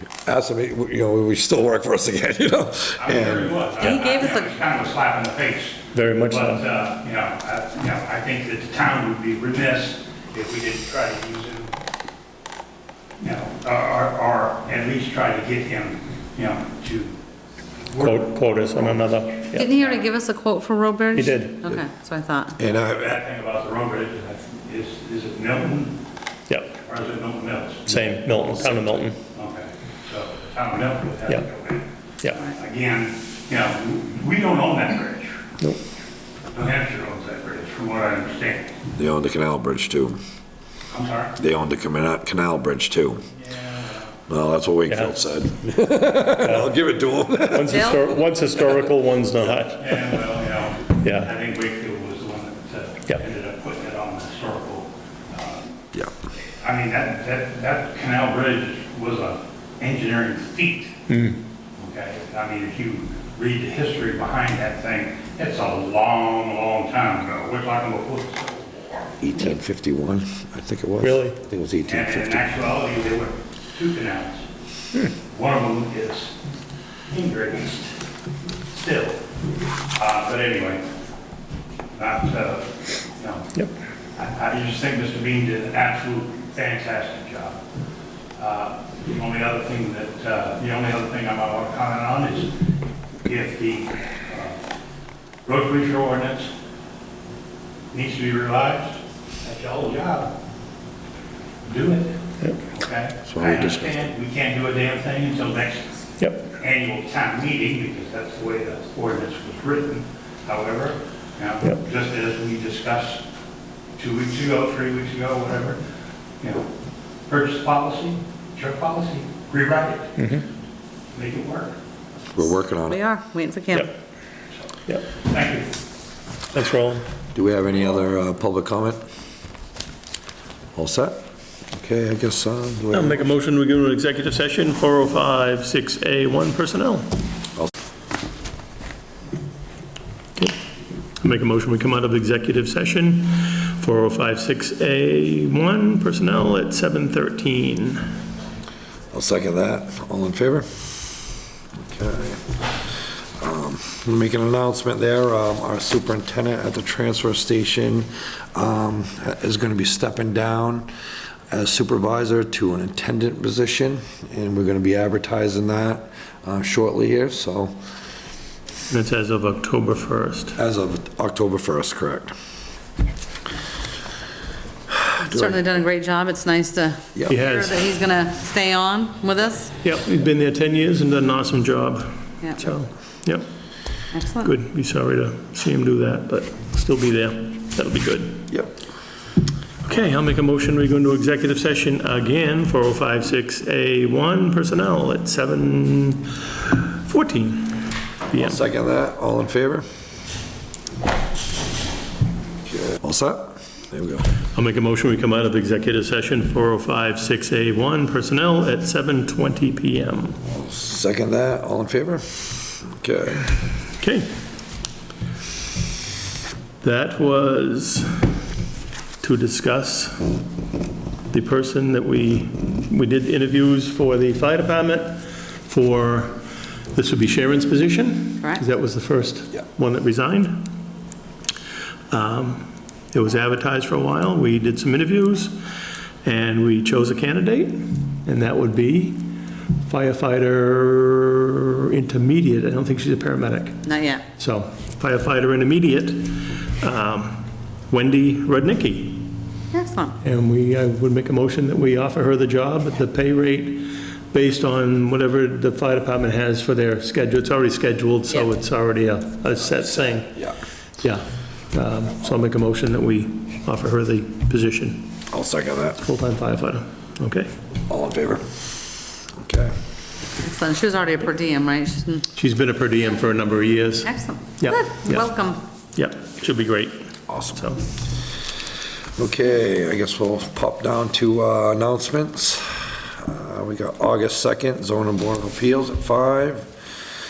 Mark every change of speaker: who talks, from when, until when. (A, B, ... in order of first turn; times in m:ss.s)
0:00.3-0:03.7 A
0:03.0-0:11.7 B
0:03.8-0:04.5 C
0:05.9-0:06.6 D
0:13.2-0:17.2 B
0:17.9-0:20.1 B
0:18.0-0:19.7 D
0:19.5-0:22.6 C
0:21.2-0:21.6 D
0:22.6-0:23.2 A
0:22.6-0:26.0 B
0:26.8-0:35.4 B
0:27.9-0:29.2 D
0:36.5-0:38.7 B
0:39.0-0:40.2 A
0:40.9-0:41.3 B
0:41.4-0:43.2 A
0:43.4-0:44.1 B
0:44.3-0:48.0 A
0:44.9-0:45.2 D
0:46.3-0:46.7 D
0:47.5-0:50.2 D
0:47.7-0:48.0 C
0:49.8-0:55.8 B
0:51.0-0:51.3 D
0:56.6-1:00.9 B
1:01.1-1:01.4 D
1:01.8-1:09.2 B
1:09.2-1:12.5 A
1:11.0-1:11.4 D
1:11.9-1:14.4 B
1:15.3-1:16.4 B
1:17.1-1:17.9 B
1:18.7-1:19.2 B
1:20.0-1:20.8 B
1:21.9-1:23.6 B
1:24.2-1:27.6 B
1:28.4-1:32.6 B
1:33.2-1:34.6 B
1:35.5-1:36.5 B
1:37.9-1:40.3 B
1:41.6-1:46.0 B
1:43.3-1:44.1 A
1:46.2-1:46.5 D
1:46.5-1:53.2 B
1:54.0-1:55.8 B
1:56.4-1:56.7 B
1:57.3-2:00.2 B
2:00.2-2:00.4 D
2:01.1-2:01.8 B
2:02.3-2:03.0 A
2:02.9-2:03.9 C
2:05.2-2:05.8 B
2:06.5-2:07.0 D
2:07.3-2:09.0 A
2:10.8-2:11.2 A
2:11.8-2:13.2 A
2:12.9-2:17.1 D
2:21.2-2:28.0 D
2:29.1-2:30.9 A
2:31.8-2:32.6 A
2:33.4-2:40.9 A
2:41.5-2:47.7 A
2:48.9-2:50.6 D
2:50.6-2:52.3 A
2:55.0-2:55.6 A
2:55.3-2:59.7 C
2:57.3-2:57.8 D
2:59.8-3:03.4 D
3:04.1-3:04.5 C
3:04.4-3:08.5 D
3:09.8-3:18.7 D
3:18.4-3:19.9 A
3:22.7-3:24.3 A
3:24.6-3:30.4 D
3:30.5-3:33.5 A
3:34.0-3:34.3 D
3:36.8-3:38.4 D
3:39.2-3:40.3 D
3:41.3-3:46.4 D
3:46.9-3:50.7 D
3:52.1-3:55.6 D
3:56.2-3:59.3 D
3:59.9-4:03.9 D
4:03.9-4:04.2 C
4:04.4-4:09.3 D
4:09.7-4:10.2 C
4:10.2-4:20.3 D
4:19.7-4:20.6 A
4:21.0-4:25.2 D
4:25.3-4:26.0 A
4:26.0-4:27.5 D
4:27.9-4:28.5 A
4:29.4-4:29.7 A
4:30.4-4:32.3 C
4:32.3-4:37.8 D
4:34.1-4:35.6 C
4:37.3-4:37.6 A
4:39.2-4:46.7 A